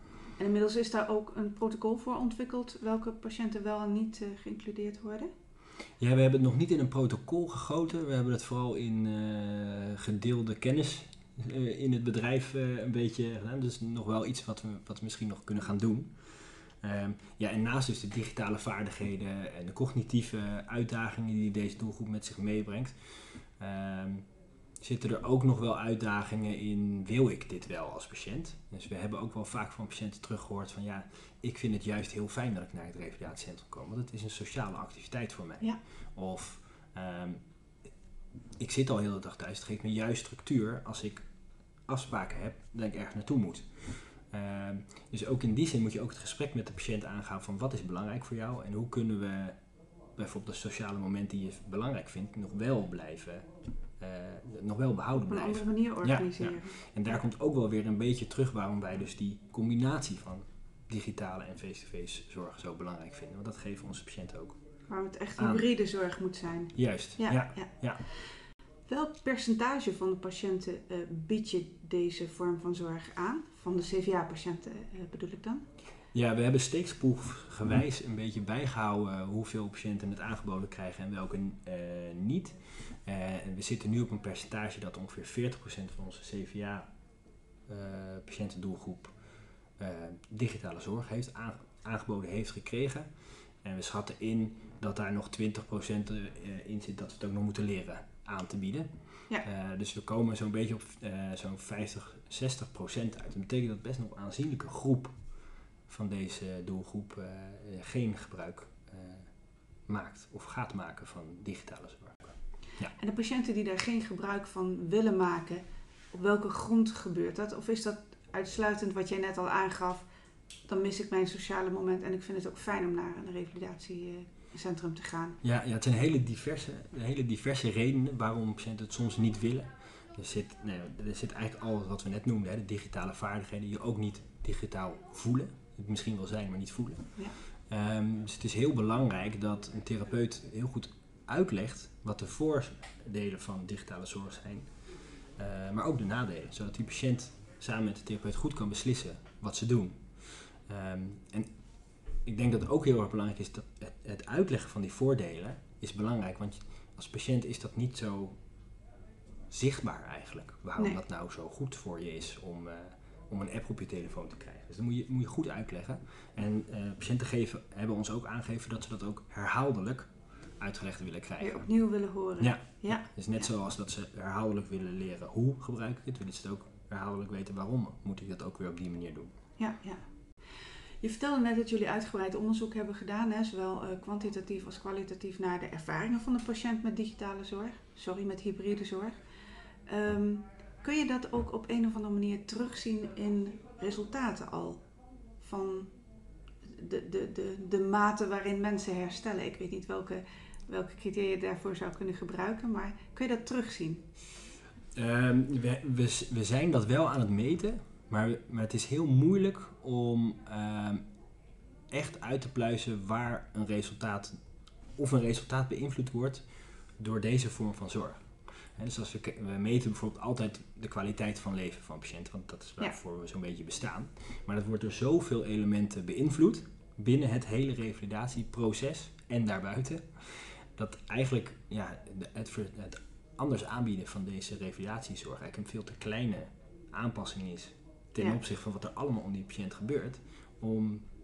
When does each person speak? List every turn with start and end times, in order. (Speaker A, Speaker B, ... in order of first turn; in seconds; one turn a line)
Speaker A: 0.4-5.3
Speaker B: 6.0-24.2
Speaker B: 24.8-37.4
Speaker B: 38.6-41.2
Speaker B: 41.9-49.6
Speaker B: 50.1-53.5
Speaker B: 54.0-64.6
Speaker A: 55.3-56.8
Speaker A: 64.9-68.3
Speaker B: 65.4-65.6
Speaker B: 66.7-68.0
Speaker A: 68.9-75.6
Speaker B: 76.1-86.9
Speaker B: 87.7-89.1
Speaker B: 89.8-93.1
Speaker B: 93.6-105.2
Speaker B: 105.9-109.3
Speaker B: 109.9-112.9
Speaker A: 113.0-120.0
Speaker A: 120.7-125.4
Speaker B: 125.4-151.5
Speaker B: 152.2-158.4
Speaker B: 159.5-171.7
Speaker A: 171.4-173.4
Speaker B: 172.4-179.3
Speaker A: 179.6-180.0
Speaker A: 181.0-189.2
Speaker A: 189.9-194.8
Speaker A: 195.4-195.9
Speaker A: 196.6-204.0
Speaker B: 204.9-211.0
Speaker B: 211.9-214.4
Speaker B: 214.9-241.1